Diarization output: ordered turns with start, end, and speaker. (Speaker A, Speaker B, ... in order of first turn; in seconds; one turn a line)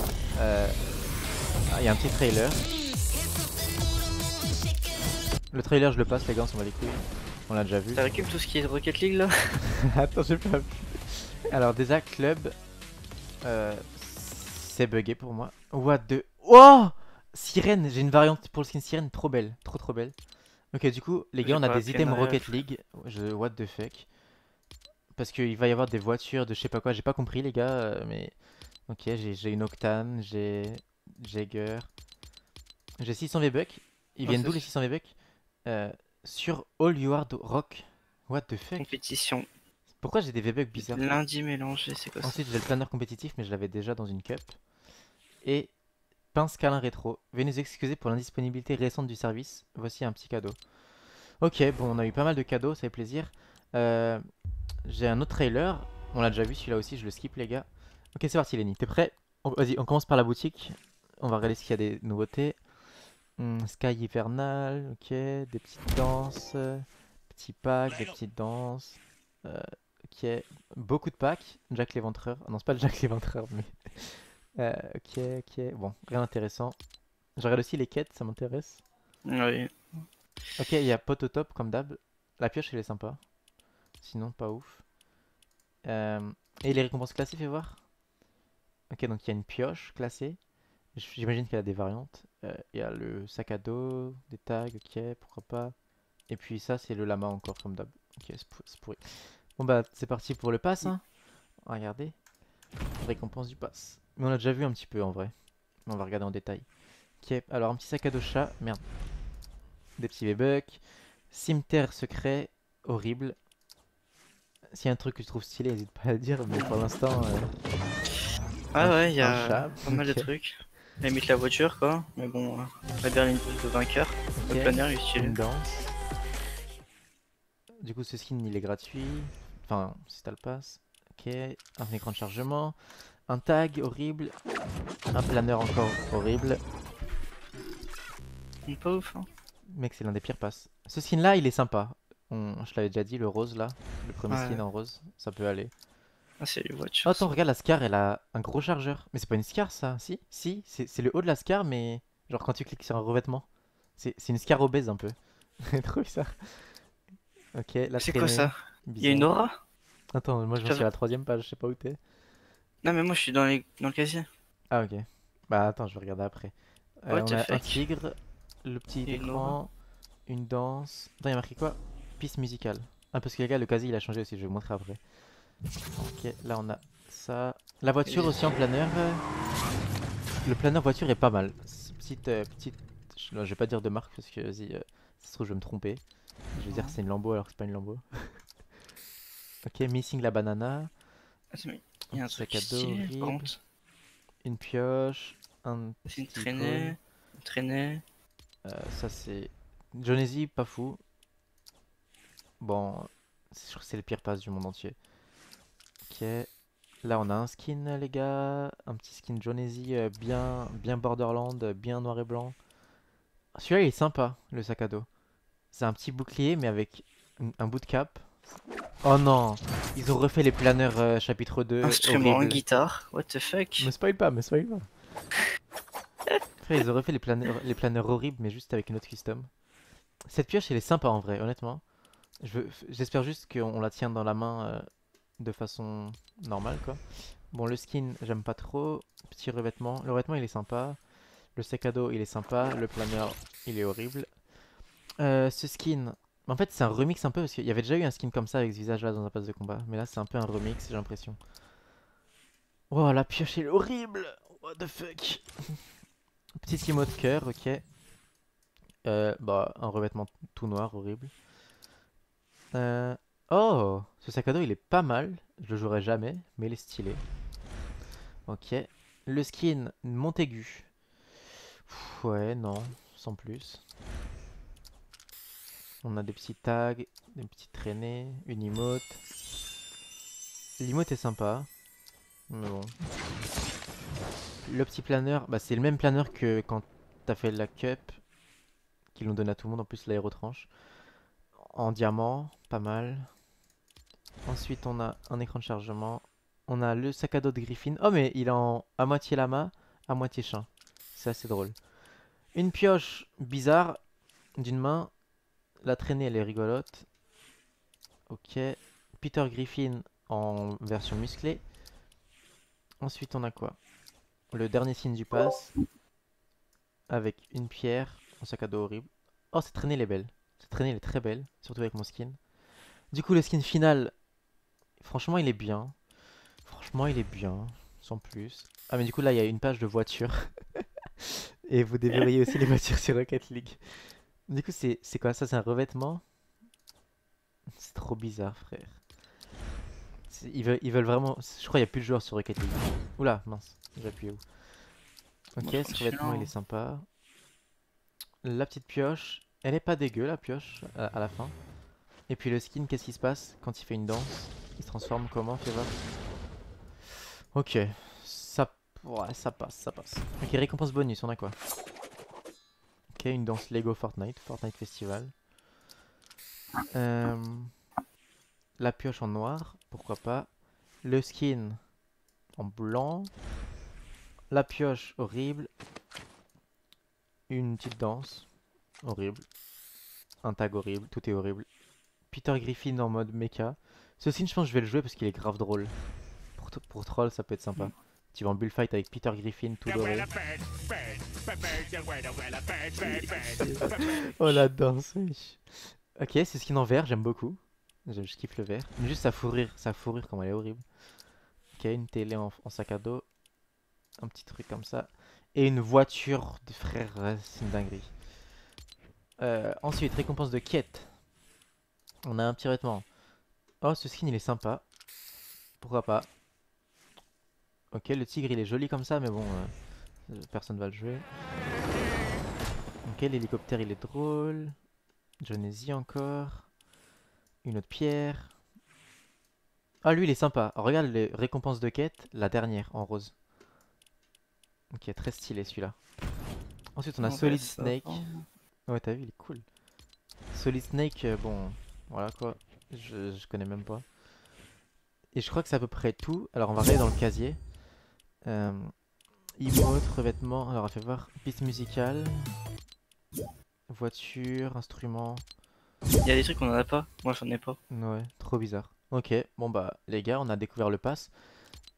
Speaker A: 0.3-0.8
Speaker A: 1.7-2.6
Speaker A: 5.5-8.1
Speaker B: 7.9-9.6
Speaker A: 9.7-12.5
Speaker A: 13.4-20.1
Speaker A: 20.7-24.1
Speaker B: 21.4-22.6
Speaker A: 25.2-28.4
Speaker A: 28.9-31.9
Speaker A: 33.0-35.1
Speaker B: 34.2-34.7
Speaker A: 35.7-38.9
Speaker B: 38.8-39.5
Speaker A: 40.0-41.2
Speaker B: 40.7-42.4
Speaker A: 42.2-44.6
Speaker A: 45.4-45.7
Speaker A: 46.3-50.6
Speaker A: 51.4-54.2
Speaker A: 54.9-62.6
Speaker A: 63.4-76.8
Speaker A: 77.4-78.8
Speaker B: 79.2-80.0
Speaker A: 80.6-83.2
Speaker A: 84.0-84.8
Speaker A: 85.8-87.8
Speaker A: 88.9-90.4
Speaker A: 91.0-95.8
Speaker A: 96.3-99.0
Speaker A: 99.6-101.0
Speaker A: 101.7-102.2
Speaker A: 103.0-105.3
Speaker A: 105.9-106.7
Speaker A: 107.2-108.8
Speaker A: 110.0-113.4
Speaker A: 114.7-117.5
Speaker B: 116.5-116.8
Speaker B: 118.7-125.4
Speaker A: 118.8-120.3
Speaker A: 124.3-125.9
Speaker A: 127.8-132.8
Speaker A: 133.3-134.3
Speaker A: 135.1-136.6
Speaker B: 138.7-139.3
Speaker A: 139.7-145.7
Speaker B: 144.3-144.6
Speaker B: 146.4-147.3
Speaker A: 147.1-156.7
Speaker A: 157.5-159.3
Speaker B: 158.0-159.6
Speaker A: 160.1-162.0
Speaker B: 162.8-164.3
Speaker A: 164.7-169.7
Speaker B: 167.1-167.8
Speaker B: 169.1-169.6
Speaker A: 170.3-175.0
Speaker A: 176.0-179.2
Speaker B: 178.1-178.5
Speaker A: 180.4-186.0
Speaker A: 186.5-188.4
Speaker B: 186.7-187.0
Speaker A: 189.7-190.9
Speaker B: 191.5-193.6
Speaker A: 192.1-193.5
Speaker A: 194.4-197.0
Speaker B: 196.1-198.0
Speaker A: 198.6-201.0
Speaker A: 202.6-205.0
Speaker A: 206.1-206.5
Speaker A: 207.0-212.6
Speaker A: 213.6-215.1
Speaker A: 215.7-218.3
Speaker A: 219.0-222.6
Speaker B: 221.8-223.9
Speaker A: 223.8-224.9
Speaker A: 226.6-229.5
Speaker A: 230.3-231.8
Speaker A: 232.4-234.9
Speaker A: 235.4-241.0
Speaker A: 241.6-244.3
Speaker A: 245.2-251.4
Speaker A: 252.9-255.8
Speaker A: 256.6-257.8
Speaker A: 259.1-261.3
Speaker A: 262.7-267.2
Speaker A: 268.5-270.9
Speaker A: 271.9-273.8
Speaker A: 276.0-279.2
Speaker A: 280.8-281.7
Speaker A: 282.5-282.9
Speaker A: 284.7-288.2
Speaker A: 289.1-290.7
Speaker A: 291.6-293.3
Speaker A: 294.5-301.8
Speaker A: 302.5-304.0
Speaker A: 304.6-305.1
Speaker A: 305.8-307.1
Speaker A: 308.3-311.6
Speaker A: 313.0-313.8
Speaker A: 314.5-315.7
Speaker A: 317.1-322.4
Speaker A: 323.1-324.1
Speaker A: 325.0-326.0
Speaker A: 326.7-333.8
Speaker A: 334.5-336.2
Speaker A: 337.8-339.0
Speaker A: 340.3-344.4
Speaker A: 345.6-347.1
Speaker B: 345.6-346.5
Speaker A: 348.4-351.6
Speaker A: 352.3-356.0
Speaker A: 357.5-361.6
Speaker A: 363.2-365.3
Speaker A: 366.9-367.7
Speaker A: 368.8-370.5
Speaker A: 371.0-371.8
Speaker A: 372.6-373.3
Speaker A: 374.5-375.7
Speaker A: 377.5-378.5
Speaker A: 379.0-379.4
Speaker A: 380.4-381.7
Speaker A: 382.3-385.9
Speaker A: 386.6-390.3
Speaker A: 393.1-400.8
Speaker B: 393.1-393.8
Speaker A: 401.8-403.2
Speaker A: 404.2-408.1
Speaker A: 409.4-411.1
Speaker A: 412.2-413.1
Speaker A: 413.8-414.8
Speaker A: 415.8-416.3
Speaker A: 417.9-419.7
Speaker A: 420.3-421.3
Speaker A: 423.0-424.8
Speaker A: 425.4-426.7
Speaker A: 427.6-428.6
Speaker A: 430.0-433.3
Speaker A: 434.9-436.0
Speaker A: 437.0-438.2
Speaker B: 437.2-438.4
Speaker A: 438.9-439.6
Speaker A: 440.5-444.1
Speaker A: 445.3-447.6
Speaker A: 448.4-448.9
Speaker A: 449.6-452.5
Speaker A: 453.9-455.4
Speaker B: 456.2-457.8
Speaker A: 457.9-461.3